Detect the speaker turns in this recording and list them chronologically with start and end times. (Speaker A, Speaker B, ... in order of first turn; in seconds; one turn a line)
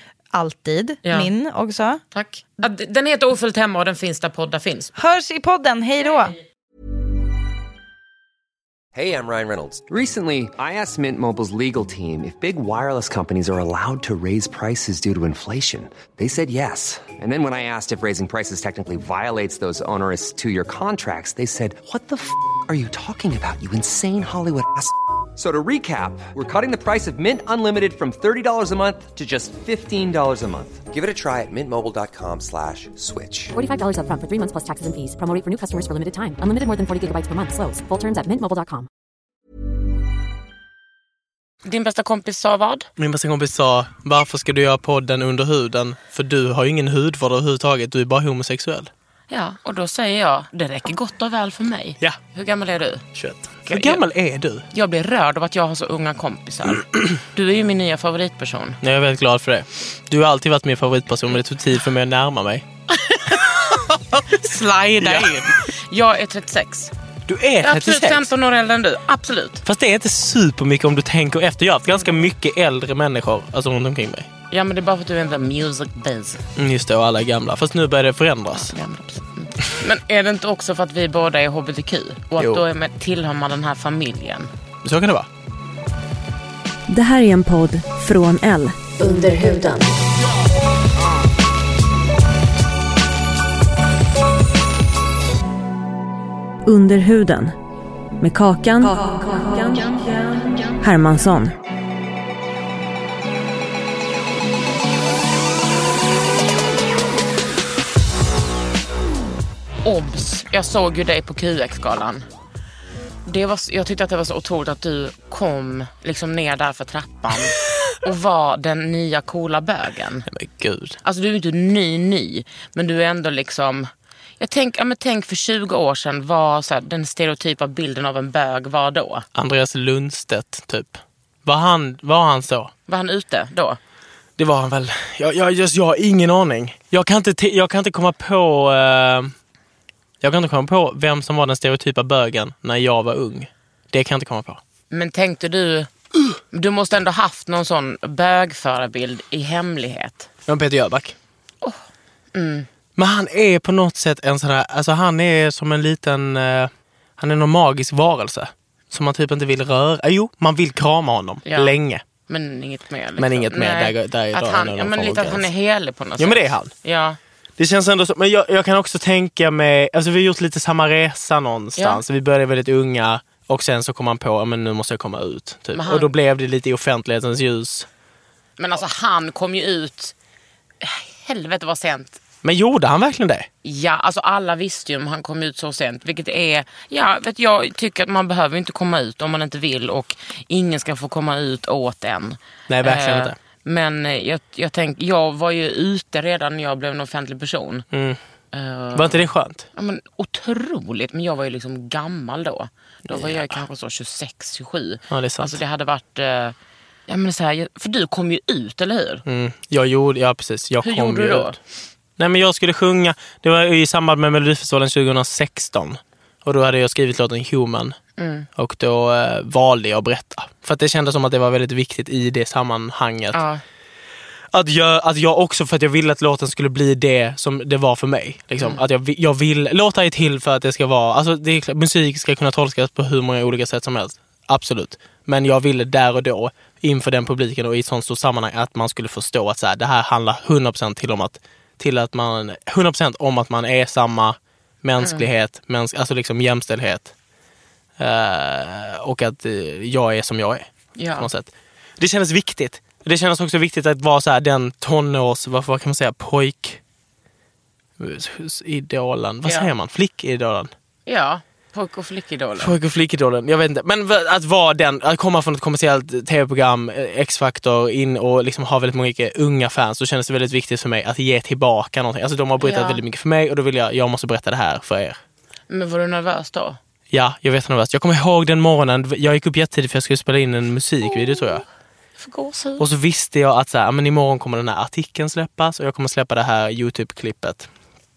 Speaker A: 0.3-2.0
Speaker B: 1.0-1.3
Speaker B: 2.1-4.9
Speaker A: 5.0-6.4
Speaker C: 8.9-33.5
Speaker D: 33.5-38.9
Speaker B: 41.6-42.9
Speaker E: 43.0-48.9
Speaker B: 49.3-53.0
Speaker E: 53.1-54.6
Speaker B: 53.6-54.0
Speaker B: 54.7-58.8
Speaker E: 58.8-62.6
Speaker B: 62.9-66.9
Speaker E: 65.0-65.3
Speaker E: 67.3-68.3
Speaker B: 67.6-69.6
Speaker E: 69.6-74.3
Speaker B: 74.5-76.4
Speaker E: 76.5-78.7
Speaker B: 78.5-84.5
Speaker E: 82.4-82.6
Speaker E: 84.8-85.3
Speaker F: 86.9-90.0
Speaker F: 96.6-97.5
Speaker F: 98.2-101.5
Speaker B: 109.8-112.2
Speaker B: 113.2-120.3
Speaker E: 120.3-121.0
Speaker B: 121.0-129.2
Speaker E: 129.3-132.7
Speaker B: 132.9-133.8
Speaker E: 134.4-139.3
Speaker E: 140.2-144.6
Speaker B: 144.9-145.9
Speaker B: 146.5-150.3
Speaker E: 150.4-151.2
Speaker B: 152.3-152.7
Speaker E: 152.9-162.0
Speaker B: 161.4-161.8
Speaker B: 162.3-167.2
Speaker E: 163.2-165.5
Speaker E: 166.2-166.7
Speaker E: 167.6-177.9
Speaker B: 175.7-176.1
Speaker B: 178.6-180.1
Speaker B: 180.8-182.2
Speaker E: 182.4-183.5
Speaker B: 183.6-197.8
Speaker E: 192.7-193.3
Speaker E: 197.9-198.2
Speaker B: 198.5-206.6
Speaker E: 198.9-199.7
Speaker E: 203.1-203.6
Speaker E: 205.1-205.6
Speaker B: 207.1-209.2
Speaker E: 209.2-211.5
Speaker B: 210.8-211.6
Speaker E: 212.2-217.9
Speaker B: 218.2-218.5
Speaker E: 218.6-223.4
Speaker B: 223.3-223.6
Speaker E: 224.5-247.1
Speaker B: 245.0-245.2
Speaker E: 248.0-256.8
Speaker B: 250.9-251.3
Speaker E: 258.0-260.7
Speaker B: 259.4-259.7
Speaker B: 261.1-262.7
Speaker E: 262.6-275.2
Speaker B: 272.6-273.0
Speaker B: 275.7-276.8
Speaker E: 277.1-281.6
Speaker B: 281.1-281.5
Speaker B: 282.2-282.8
Speaker E: 282.8-287.7